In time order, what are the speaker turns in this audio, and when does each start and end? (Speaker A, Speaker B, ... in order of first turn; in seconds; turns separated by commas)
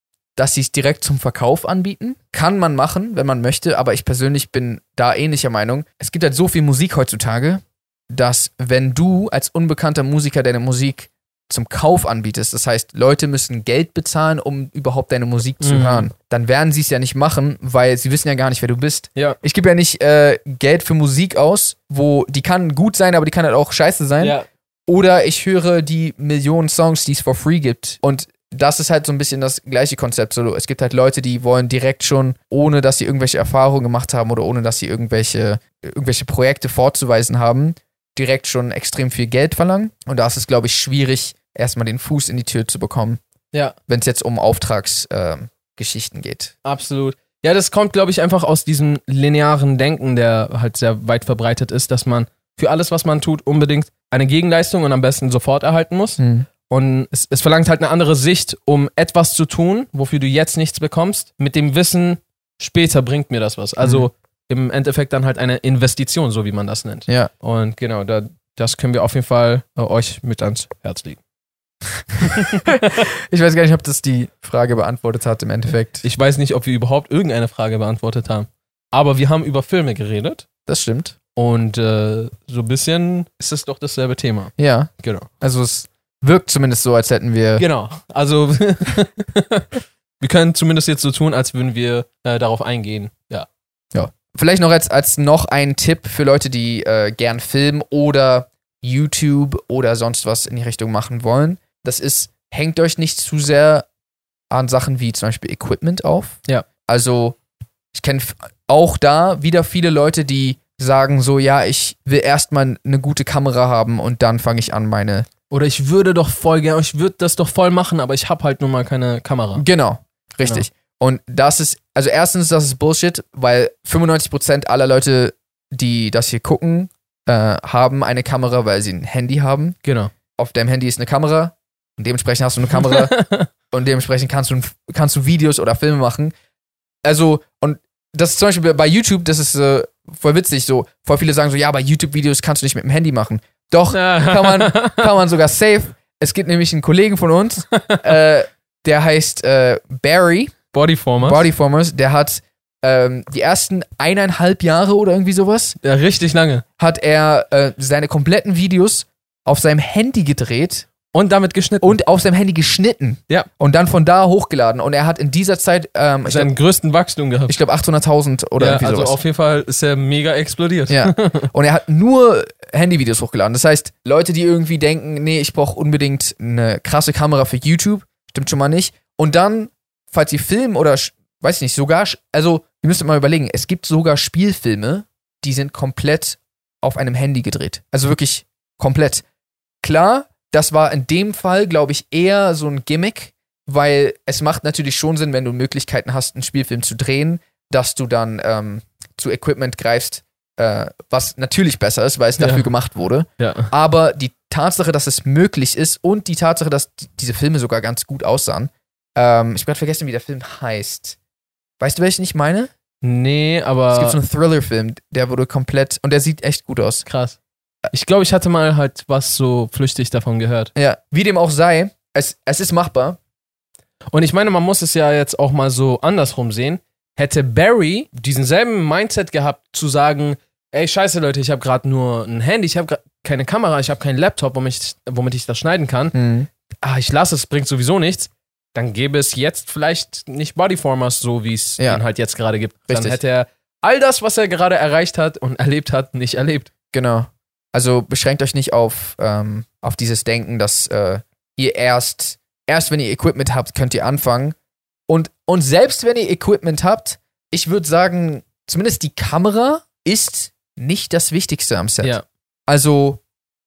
Speaker A: 0.4-24.4, Speaker B: 15.6-16.1, Speaker B: 24.2-24.5, Speaker A: 24.9-43.2, Speaker A: 43.9-46.5, Speaker B: 46.6-71.2, Speaker A: 56.2-56.5, Speaker B: 72.4-72.6, Speaker A: 72.4-76.0, Speaker B: 76.0-80.5, Speaker A: 80.7-81.2, Speaker B: 81.3-85.3, Speaker A: 84.6-87.6, Speaker B: 87.6-89.7, Speaker B: 90.2-93.5, Speaker A: 93.9-103.9, Speaker A: 104.5-107.4, Speaker A: 107.9-115.3, Speaker B: 115.5-119.6, Speaker A: 119.6-129.8, Speaker B: 129.8-130.1, Speaker A: 130.4-133.2, Speaker B: 132.9-133.5, Speaker A: 133.7-136.3, Speaker A: 137.0-150.6, Speaker B: 143.9-145.1, Speaker B: 147.7-148.1, Speaker B: 150.7-151.5, Speaker A: 151.2-155.8, Speaker B: 155.8-156.6, Speaker A: 156.8-160.9, Speaker B: 161.1-162.0, Speaker A: 161.8-166.5, Speaker B: 166.3-167.6, Speaker A: 167.5-169.2, Speaker B: 168.6-171.5, Speaker A: 170.9-189.2, Speaker A: 189.8-211.2, Speaker B: 202.4-202.7, Speaker B: 203.4-203.7, Speaker A: 211.8-212.7, Speaker B: 213.0-214.2, Speaker A: 213.9-217.1, Speaker B: 217.1-217.4, Speaker B: 217.9-220.7, Speaker A: 220.8-223.2, Speaker B: 224.1-236.2, Speaker A: 236.1-236.5, Speaker B: 236.8-246.7, Speaker A: 242.9-243.2, Speaker A: 246.9-254.6, Speaker A: 255.1-262.2, Speaker A: 262.7-263.2